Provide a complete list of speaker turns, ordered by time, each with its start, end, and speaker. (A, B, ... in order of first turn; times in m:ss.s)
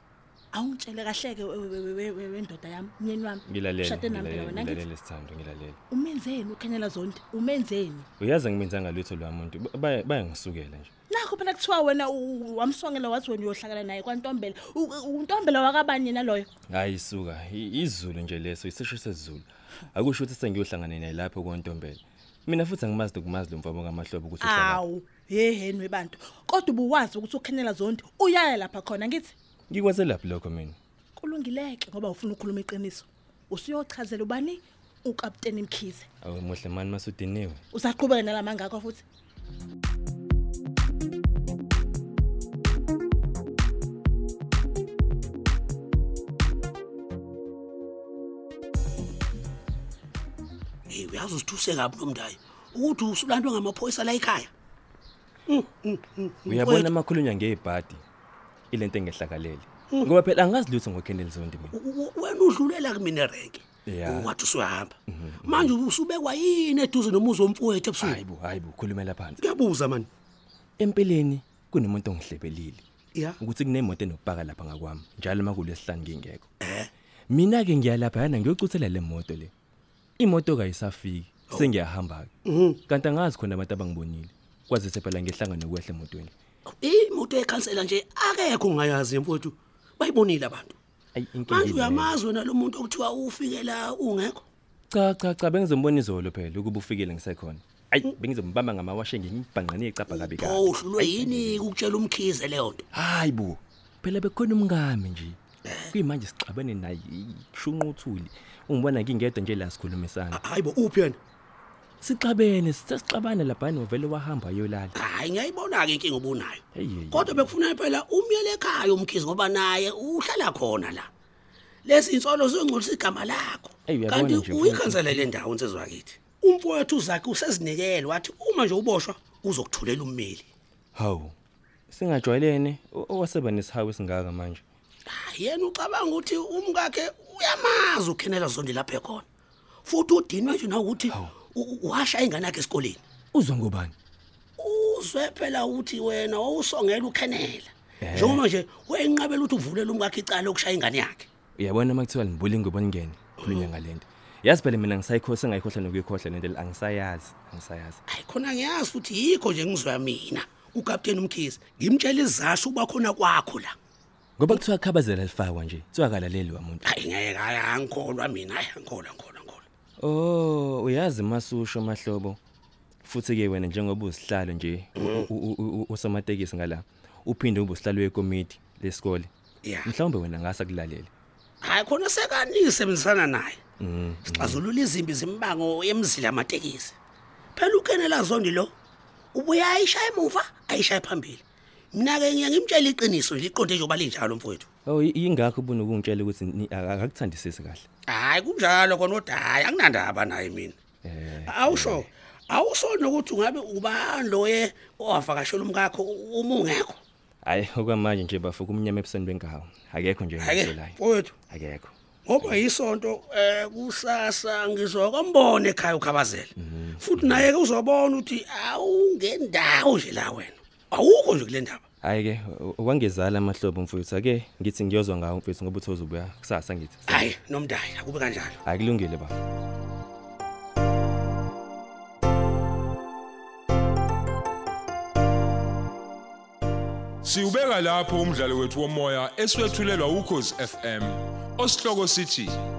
0:00.5-0:04.8 A
0:03.5-0:05.8 B
0:05.9-0:08.1 A
0:08.2-0:10.9 B
0:11.1-0:16.5 A
0:16.7-0:24.8 B
0:24.4-0:29.3 A
0:29.7-0:30.8 B
0:31.2-0:36.1 A
0:36.2-0:37.6 B
0:37.7-0:39.0 A
0:50.9-0:54.5 C
0:55.5-0:56.9 C
0:56.5-0:58.0 B
0:58.7-1:01.8 B
1:01.7-1:08.2 C
1:03.9-1:04.3 B
1:05.1-1:05.8 B
1:08.0-1:09.4 B
1:09.4-1:10.1 C
1:10.8-1:12.8 B
1:13.4-1:16.5 B
1:16.6-1:16.9 C
1:17.3-1:19.5 B
1:20.2-1:22.3 B
1:22.5-1:22.8 C
1:22.9-1:26.3 B
1:26.7-1:30.8 C
1:31.2-1:32.2 B
1:31.5-1:34.4 C
1:34.9-1:41.7 B
1:40.1-1:42.8 C
1:42.9-1:45.4 B
1:45.6-1:45.9 C
1:45.9-1:50.4 B
1:50.3-1:51.2 C
1:52.0-1:55.0 B
1:55.0-2:01.1 C
1:56.7-1:57.5 B
2:01.8-2:10.5 C
2:03.9-2:05.3 B
2:11.0-2:11.3 B
2:11.9-2:14.6 B
2:15.1-2:19.2 C
2:19.9-2:23.0 C
2:21.1-2:21.4 B
2:23.3-2:23.9 B
2:24.6-2:31.3 C
2:28.0-2:28.4 B
2:31.6-2:38.0 B
2:33.4-2:33.7 C
2:38.1-2:43.8 C
2:44.4-2:46.8 B
2:46.8-2:49.6 C
2:50.0-2:52.4 B
2:53.0-2:59.3 B
2:55.0-2:55.3 C
2:59.6-2:59.9 C
2:59.8-3:01.1 B
3:01.6-3:03.6 C
3:03.8-3:04.6 B
3:04.3-3:07.0 C
3:07.6-3:08.7 C
3:09.3-3:11.4 C
3:11.9-3:14.7 C
3:14.9-3:17.8 B
3:18.1-3:20.8 C
3:21.0-3:22.1 B
3:21.5-3:27.0 C
3:27.4-3:31.0 B
3:30.4-3:31.4 C
3:31.5-3:32.6 B
3:32.3-3:41.8 C
3:36.6-3:37.5 B
3:42.0-3:47.2 B
3:47.1-3:48.6 C
3:48.6-3:49.4 B
3:57.2-4:02.6 D